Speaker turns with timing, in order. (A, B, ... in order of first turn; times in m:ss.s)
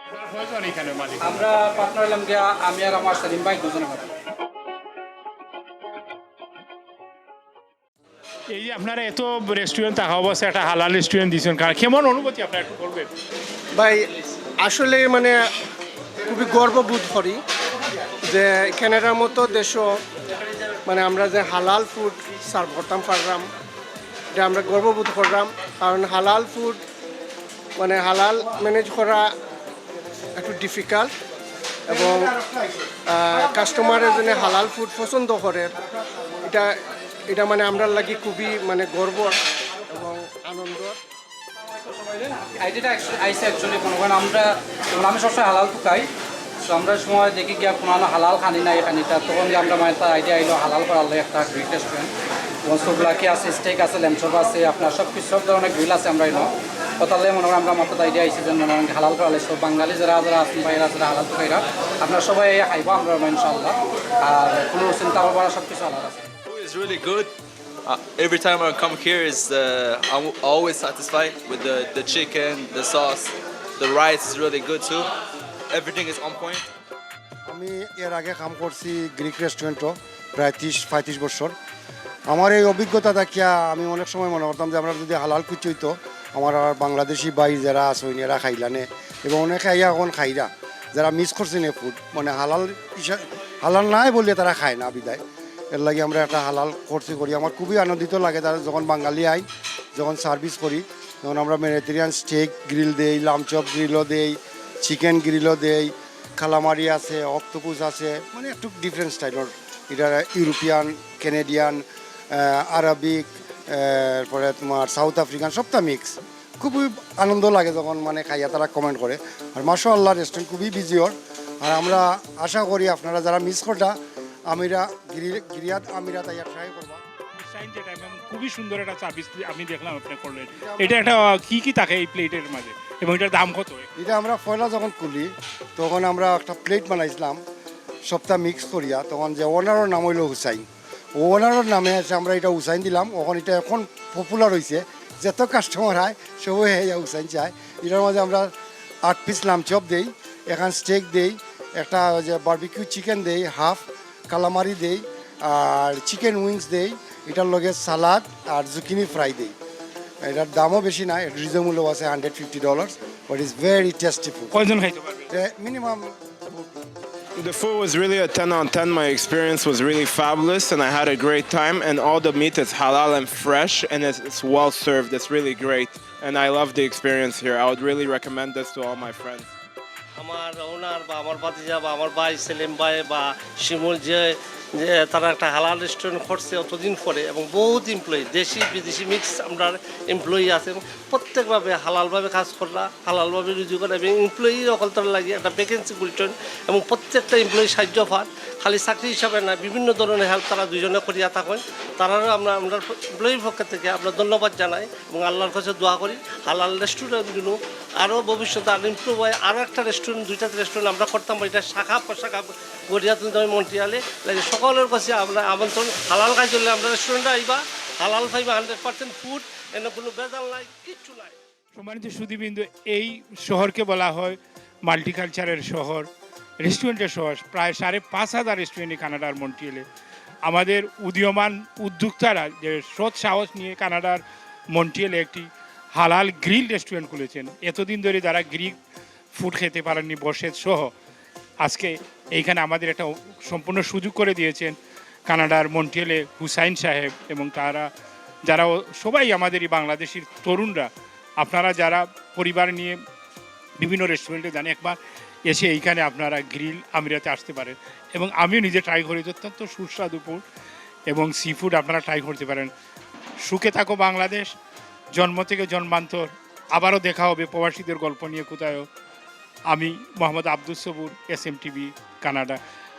0:00.1-0:01.4 A
0:01.2-0:04.1 B
0:08.5-0:13.1 A
0:13.7-0:14.1 C
0:14.6-0:15.4 C
0:16.2-0:17.4 C
0:18.3-0:19.9 C
0:20.8-0:23.5 C
0:24.3-0:26.8 C
0:27.8-0:29.3 C
0:30.4-0:31.1 C
0:31.9-0:32.4 C
0:33.0-0:35.7 C
0:36.4-0:36.7 C
0:37.3-0:39.4 C
0:39.9-0:41.0 C
0:41.8-0:46.1 B
0:46.7-0:52.1 B
0:52.7-1:06.2 B
1:06.5-1:15.1 D
1:15.7-1:16.7 D
1:17.5-1:21.5 E
1:22.3-1:35.2 E
1:35.7-2:03.9 E
2:04.5-2:07.0 E
2:07.4-2:13.8 A
2:10.6-2:11.1 E
2:14.0-2:17.4 E
2:18.0-2:28.5 E
2:29.0-2:39.5 E
2:40.2-2:44.5 E
2:44.5-2:45.3 A
2:45.3-2:46.8 E
2:47.4-2:59.5 F
3:00.2-3:41.4 G
3:41.8-3:46.1 A
3:46.6-3:49.8 A
3:50.5-3:54.2 A
3:54.7-3:58.8 A
3:59.3-4:00.9 A
4:01.6-4:07.9 A
4:08.5-4:10.9 A
4:11.4-4:13.0 A
4:13.8-4:20.4 A
4:21.1-4:22.7 A
4:23.4-4:24.5 A
4:25.2-4:28.9 A
4:29.7-4:32.6 A